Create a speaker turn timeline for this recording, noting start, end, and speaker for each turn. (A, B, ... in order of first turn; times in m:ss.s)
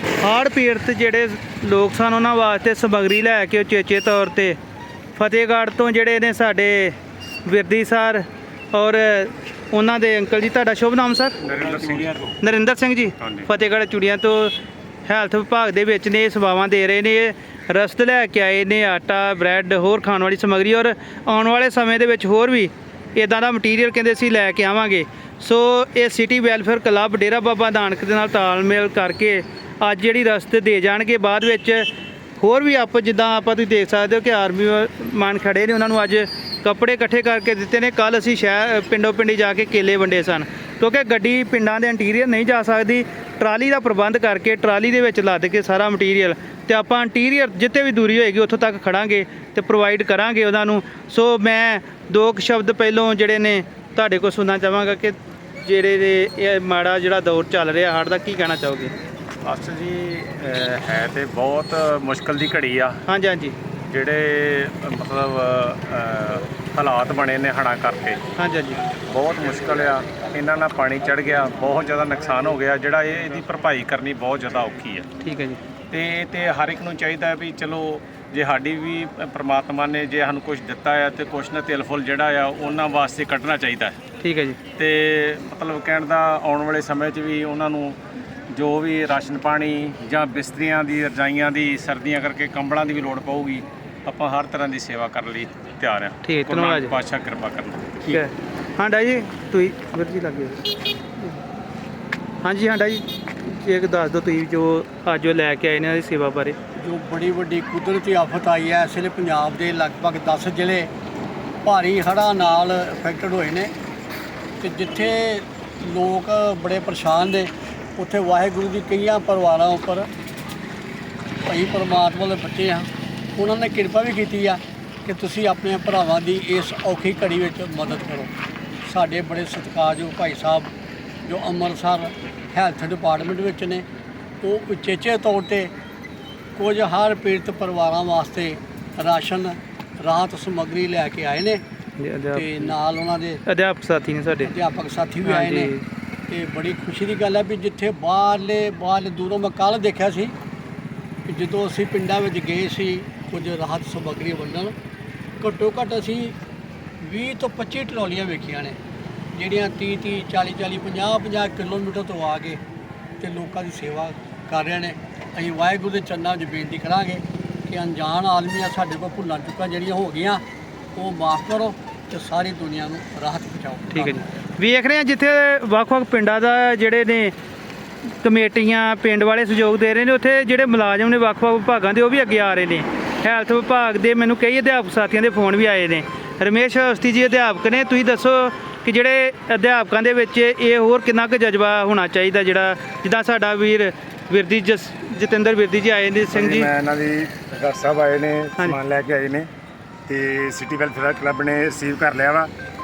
0:00.2-0:04.6 A
0:05.2-0:11.4 A
0:11.4-0:12.4 B
0:12.4-0:14.6 A
0:13.2-0:13.5 B
0:15.1-0:31.9 A
0:32.4-0:59.0 A
0:59.4-1:03.0 B
1:03.1-1:03.6 A
1:03.9-1:08.2 B
1:08.4-1:08.8 A
1:09.1-1:15.1 B
1:15.2-1:15.6 A
1:15.9-1:24.0 B
1:24.2-1:24.6 A
1:24.8-1:28.0 B
1:28.5-1:38.2 B
1:36.2-1:37.0 A
1:38.1-1:41.4 A
1:42.4-1:46.6 A
1:46.8-1:50.9 C
1:51.6-1:53.7 C
1:54.6-2:00.1 C
2:01.5-2:08.3 C
2:08.8-2:10.7 C
2:11.2-2:13.8 C
2:14.4-2:15.7 C
2:16.6-2:21.6 C
2:22.0-2:22.7 A
2:22.4-2:23.4 C
2:23.5-2:24.5 A
2:24.4-2:25.7 C
2:25.3-2:25.8 A
2:26.3-2:30.3 C
2:31.3-2:34.7 C
2:35.4-2:36.4 C
2:37.0-2:38.8 C
2:39.4-2:42.6 C
2:43.2-2:50.4 C
2:51.0-2:54.3 C
2:53.9-2:57.3 A
2:58.2-3:16.7 A
3:16.3-3:19.5 D
3:20.1-3:22.5 D